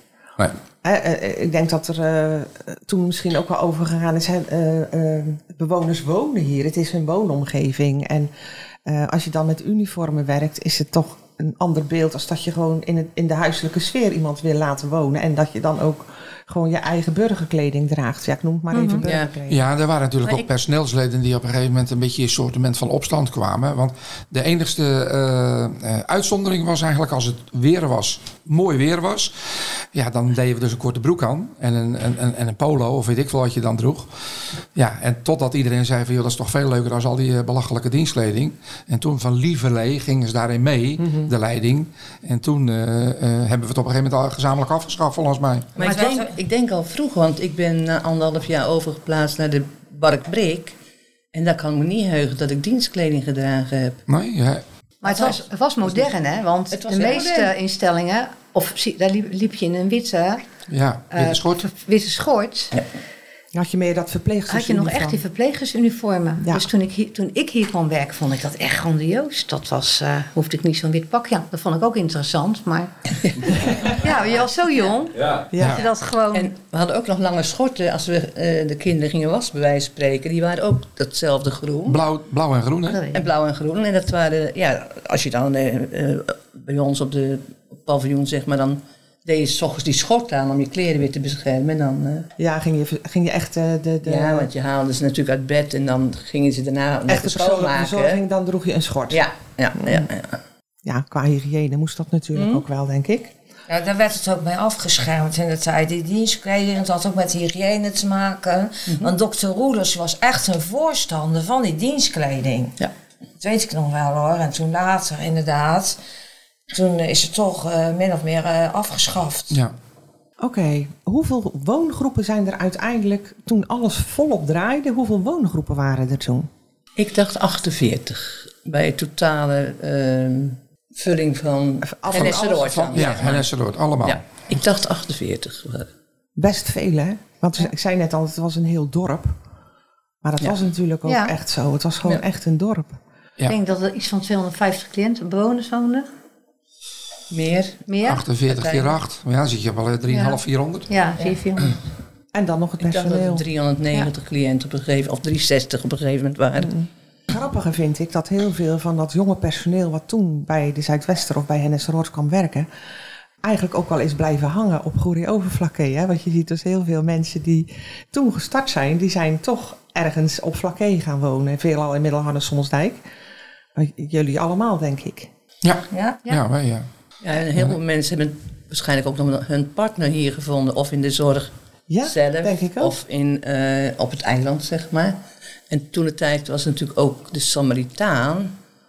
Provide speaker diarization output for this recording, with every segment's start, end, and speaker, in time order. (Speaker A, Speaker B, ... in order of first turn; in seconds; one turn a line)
Speaker A: 0.8-8.3
Speaker A: 8.8-19.6
Speaker B: 18.7-19.0
Speaker C: 19.0-19.3
Speaker D: 19.5-29.4
Speaker D: 29.9-34.1
Speaker D: 34.8-45.8
Speaker C: 45.8-50.8
Speaker E: 45.8-46.3
Speaker C: 51.3-54.0
Speaker D: 54.1-54.6
Speaker B: 55.0-60.5
Speaker C: 55.0-56.1
Speaker C: 56.7-57.5
Speaker D: 60.7-61.6
Speaker B: 61.1-62.7
Speaker A: 63.5-65.2
Speaker B: 64.5-76.5
Speaker A: 66.4-66.7
Speaker A: 75.5-75.8
Speaker C: 76.3-82.0
Speaker D: 81.9-83.0
Speaker B: 82.9-83.3
Speaker C: 83.1-92.3
Speaker A: 92.4-94.5
Speaker C: 94.0-98.2
Speaker A: 97.1-99.2
Speaker C: 99.1-100.4
Speaker A: 100.8-103.3
Speaker C: 102.3-102.6
Speaker E: 103.7-112.8
Speaker E: 113.4-116.0
Speaker E: 116.7-119.6
Speaker A: 120.4-126.5
Speaker C: 127.0-133.5
Speaker A: 131.8-133.3
Speaker D: 132.7-134.2
Speaker C: 134.0-135.9
Speaker A: 136.4-139.3
Speaker A: 140.2-143.0
Speaker B: 141.1-141.3
Speaker B: 143.5-146.1
Speaker C: 147.3-147.9
Speaker B: 147.9-148.2
Speaker D: 148.0-150.9
Speaker C: 148.5-149.0
Speaker B: 150.1-151.8
Speaker A: 152.3-153.5
Speaker C: 152.8-156.7
Speaker A: 156.6-162.7
Speaker A: 163.4-173.0
Speaker A: 173.8-175.3
Speaker D: 175.6-176.9
Speaker E: 175.9-176.2
Speaker C: 177.2-181.5
Speaker A: 181.9-182.9
Speaker C: 182.0-185.2
Speaker C: 185.7-188.5